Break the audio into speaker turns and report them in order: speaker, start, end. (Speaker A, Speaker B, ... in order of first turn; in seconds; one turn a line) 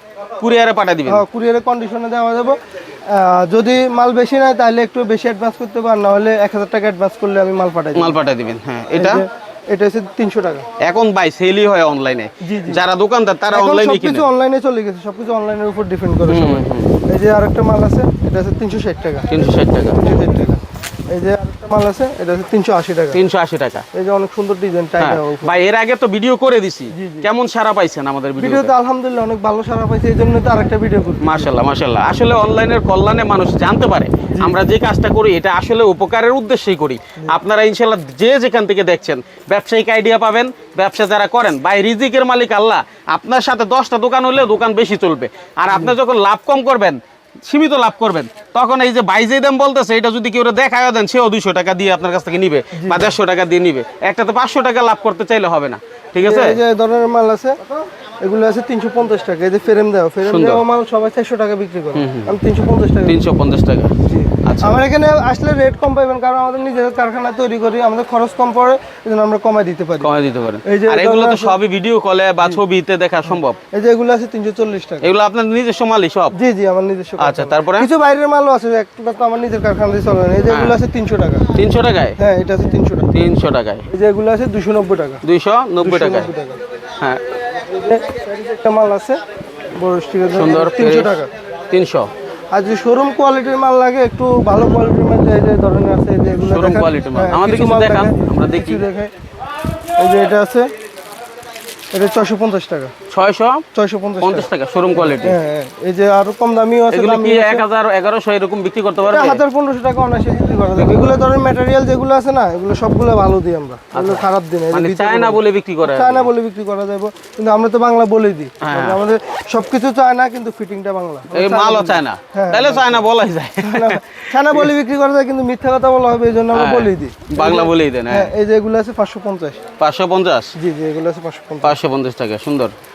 Speaker A: 0.4-1.2
Speaker B: 1.1-8.2
Speaker A: 7.9-9.2
Speaker B: 8.9-10.6
Speaker A: 10.8-14.3
Speaker B: 12.4-12.8
Speaker B: 13.5-19.4
Speaker A: 16.3-17.0
Speaker A: 19.3-20.2
Speaker B: 20.0-23.2
Speaker A: 23.1-23.8
Speaker B: 23.9-25.5
Speaker A: 25.0-28.7
Speaker B: 26.9-27.3
Speaker B: 28.4-31.5
Speaker A: 31.2-56.6
Speaker B: 52.7-53.1
Speaker B: 56.2-63.2
Speaker A: 60.2-60.6
Speaker A: 61.9-62.4
Speaker A: 63.0-64.8
Speaker B: 64.0-70.1
Speaker A: 70.0-73.6
Speaker B: 70.6-71.6
Speaker B: 73.7-75.1
Speaker A: 75.0-76.3
Speaker B: 76.3-81.4
Speaker A: 77.2-77.9
Speaker A: 80.5-80.8
Speaker A: 81.5-82.2
Speaker B: 82.2-83.1
Speaker A: 83.1-83.8
Speaker B: 83.9-85.2
Speaker A: 85.2-86.3
Speaker B: 85.8-86.6
Speaker B: 87.6-89.2
Speaker B: 89.7-91.3
Speaker A: 90.3-92.1
Speaker B: 92.5-99.1
Speaker A: 96.5-98.8
Speaker B: 100.0-100.7
Speaker B: 101.9-102.9
Speaker A: 103.1-103.6
Speaker B: 103.7-107.6
Speaker A: 104.2-105.4
Speaker A: 106.9-109.4
Speaker B: 109.1-123.1
Speaker A: 110.8-111.2
Speaker A: 113.9-116.3
Speaker A: 118.6-119.0
Speaker A: 121.3-124.7
Speaker B: 123.6-129.6
Speaker A: 126.5-128.3
Speaker A: 129.8-130.5
Speaker B: 130.6-131.8
Speaker A: 131.6-132.7